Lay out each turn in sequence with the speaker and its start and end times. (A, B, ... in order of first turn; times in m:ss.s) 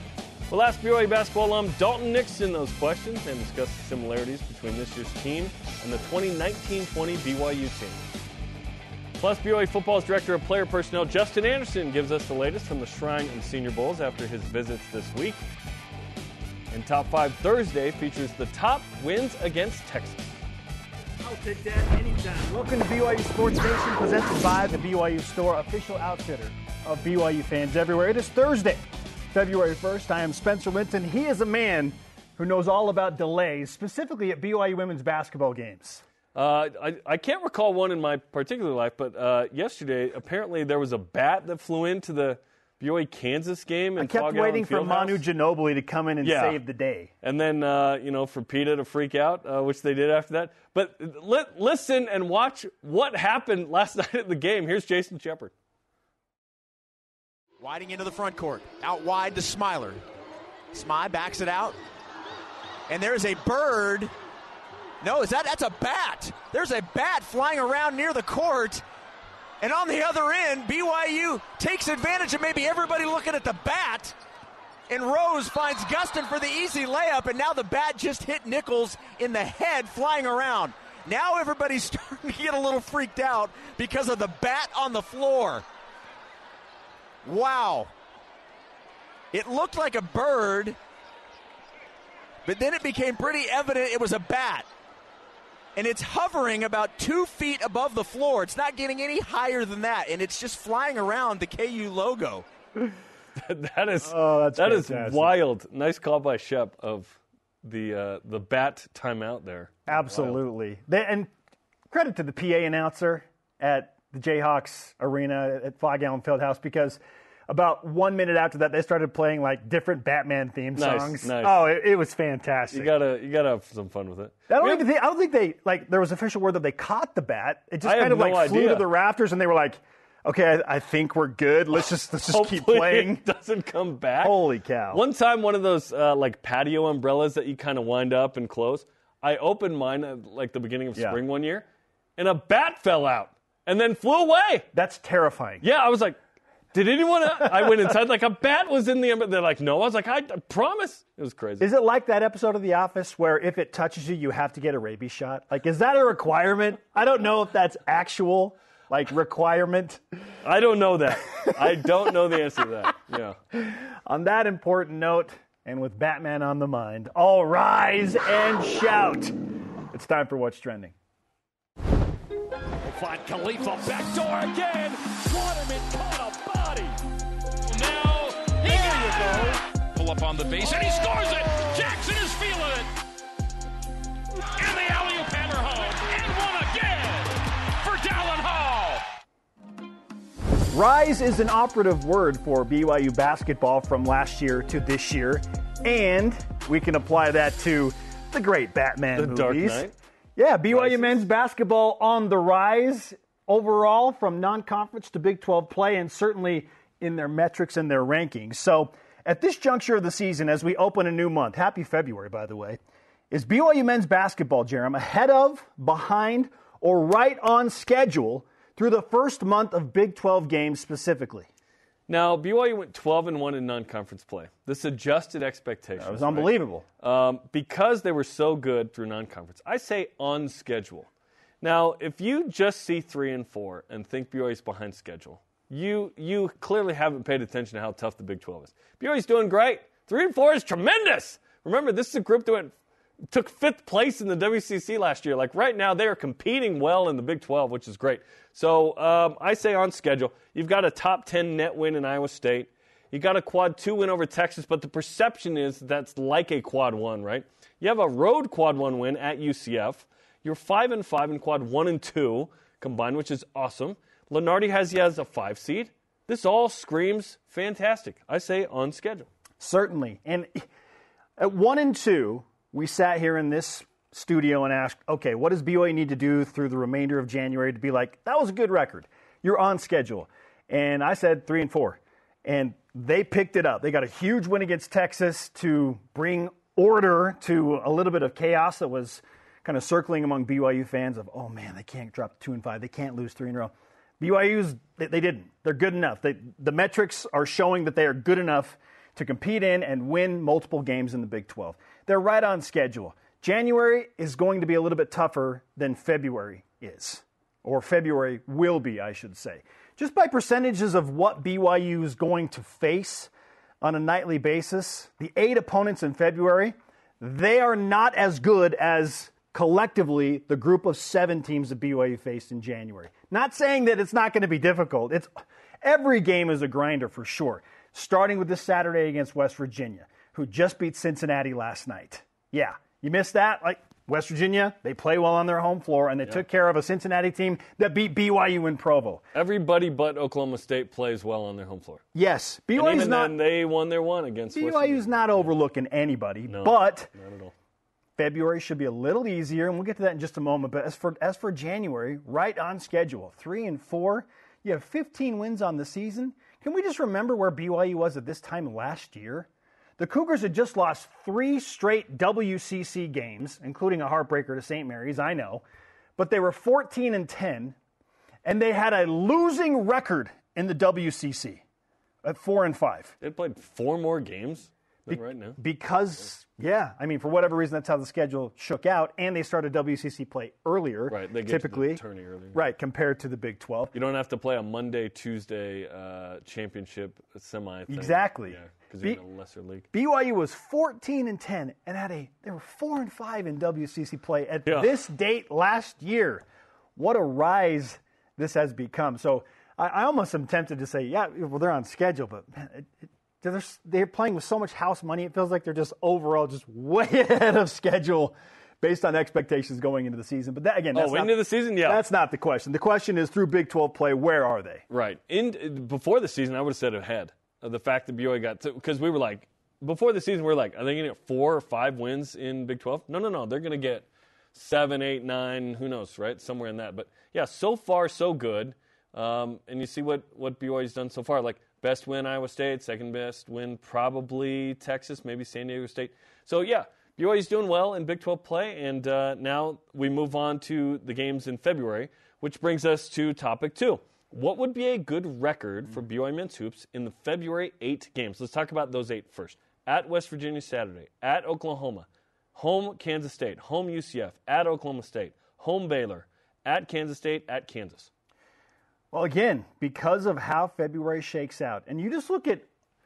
0:00.5-0:08.0 A
0:09.2-0:15.4 A
0:16.7-0:20.3 A
0:21.2-0:36.0 B
0:36.3-0:45.2 A
0:44.0-0:47.1 B
0:46.2-0:46.6 A
0:47.2-0:55.5 A
0:57.6-1:00.0 C
1:00.7-1:01.8 C
1:02.9-1:04.1 C
1:05.0-1:08.8 C
1:09.6-1:14.2 C
1:14.9-1:25.6 C
1:27.2-1:27.9 C
1:29.3-1:30.8 C
1:32.4-1:34.7 C
1:35.8-1:42.5 C
1:43.4-1:50.4 A
1:44.0-1:45.4 B
1:49.9-1:51.3 B
1:51.9-2:02.9 B
2:00.8-2:01.8 A
2:02.7-2:04.9 A
2:04.5-2:13.2 B
2:07.8-2:08.9 A
2:12.3-2:14.4 A
2:14.2-2:15.0 B
2:14.9-2:21.6 A
2:21.0-2:21.2 B
2:22.2-2:24.7 A
2:24.7-2:25.6 B
2:25.6-2:26.2 A
2:26.7-2:31.7 A
2:27.4-2:27.9 B
2:31.6-2:40.2 B
2:40.4-2:43.4 A
2:41.5-2:41.9 B
2:43.5-2:49.4 B
2:49.9-2:51.0 B
2:52.8-2:56.9 D
2:57.7-3:02.9 D
3:04.6-3:09.0 D
3:10.7-3:19.8 B
3:19.2-3:20.0 A
3:20.4-3:32.8 B
3:20.7-3:21.2 A
3:33.3-3:41.5 B
3:42.1-3:51.1 A
3:46.0-3:46.8 B
3:51.6-4:02.7 A
4:03.3-4:29.3 A
4:29.6-4:30.7 B
4:31.4-5:39.2 B
5:39.3-5:42.0 A
5:42.1-5:43.4 B
5:42.7-5:45.5 A
5:44.5-5:47.1 B
5:46.5-5:47.5 A
5:48.2-5:59.5 B
6:00.0-6:05.6 B
6:06.2-6:07.8 B
6:08.4-6:11.6 B
6:12.2-6:13.2 B
6:13.2-6:15.6 A
6:15.1-6:22.0 B
6:21.1-6:22.6 A
6:22.5-6:24.0 B
6:23.9-6:29.9 A
6:27.9-6:29.2 B
6:29.9-6:36.4 B
6:34.7-6:34.9 A
6:37.0-6:54.8 B
6:50.9-6:52.0 A
6:54.9-7:38.1 A
7:39.1-7:42.7 B